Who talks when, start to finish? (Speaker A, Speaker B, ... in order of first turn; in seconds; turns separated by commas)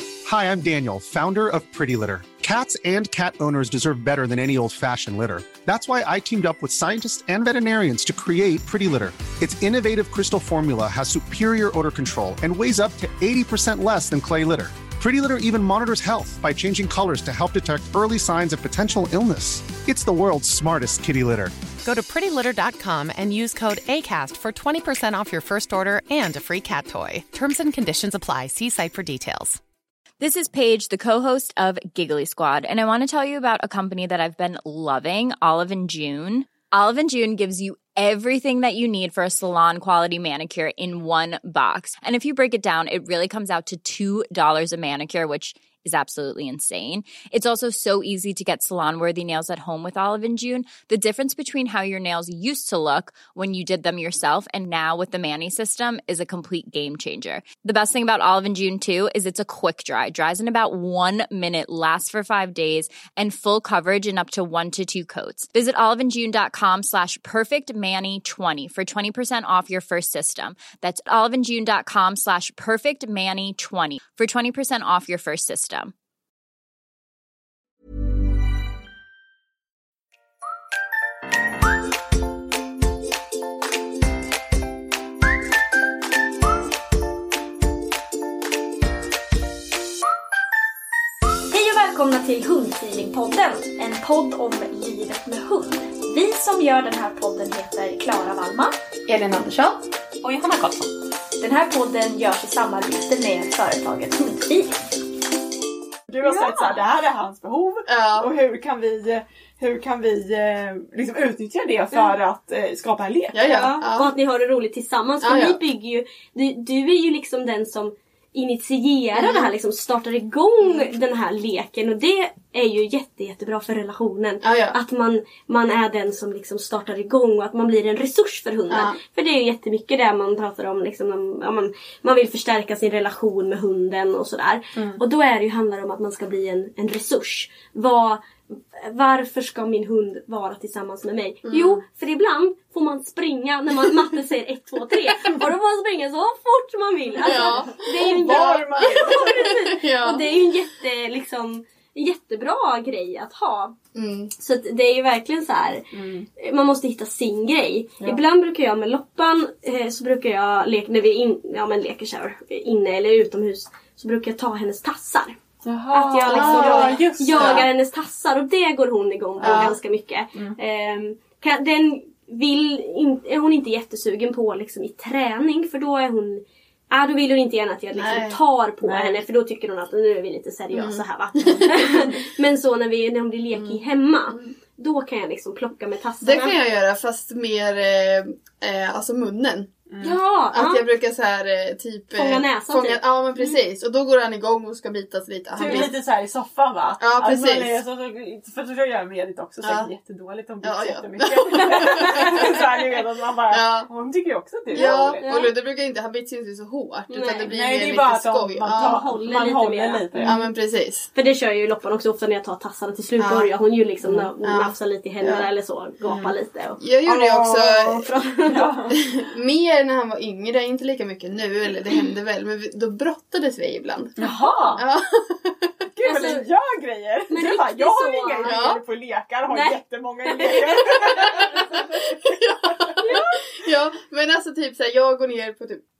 Speaker A: 0.2-21.5, Speaker B: 21.8-29.6, Speaker C: 30.2-75.9, Speaker D: 91.5-104.8, Speaker E: 106.1-113.4, Speaker F: 106.2-106.8, Speaker G: 107.8-108.3, Speaker G: 113.3-114.1, Speaker F: 113.4-153.7, Speaker G: 115.2-115.6, Speaker G: 119.2-119.5, Speaker G: 124.4-124.8, Speaker G: 128.7-129.0, Speaker G: 141.4-141.8, Speaker E: 147.2-149.6, Speaker G: 147.2-150.2, Speaker G: 153.9-154.3, Speaker F: 154.4-155.8, Speaker E: 155.9-156.3, Speaker F: 156.4-165.4, Speaker E: 165.6-167.7, Speaker F: 165.9-186.6, Speaker G: 166.2-167.7, Speaker E: 169.4-169.7, Speaker G: 169.4-169.8, Speaker G: 177.9-178.4, Speaker E: 178.8-179.2, Speaker G: 180.7-181.7, Speaker G: 183.5-184.6, Speaker G: 186.2-189.7, Speaker E: 189.9-190.2, Speaker F: 190.0-190.8, Speaker G: 190.5-195.9, Speaker F: 192.2-193.0, Speaker E: 195.6-205.2, Speaker F: 195.6-195.9, Speaker G: 197.0-197.8, Speaker G: 199.6-199.9, Speaker G: 200.6-202.6, Speaker G: 203.5-203.9, Speaker F: 204.7-205.5, Speaker G: 204.7-209.0, Speaker F: 207.1-207.5, Speaker E: 207.5-210.4, Speaker F: 208.8-210.5, Speaker G: 210.2-211.1, Speaker F: 211.1-216.8, Speaker G: 213.2-213.5, Speaker E: 214.0-214.3, Speaker G: 214.4-214.7, Speaker E: 215.2-215.5, Speaker E: 216.0-216.3, Speaker G: 216.8-218.1, Speaker E: 217.1-217.5, Speaker F: 217.5-218.7, Speaker E: 218.4-218.9, Speaker G: 219.1-224.2, Speaker E: 224.2-224.8, Speaker F: 224.2-224.8, Speaker G: 224.8-225.7, Speaker E: 225.9-233.2, Speaker F: 226.0-226.4, Speaker F: 227.3-228.5, Speaker G: 228.4-228.8, Speaker F: 229.5-229.7, Speaker F: 230.3-231.8, Speaker G: 232.2-235.8, Speaker F: 233.0-233.4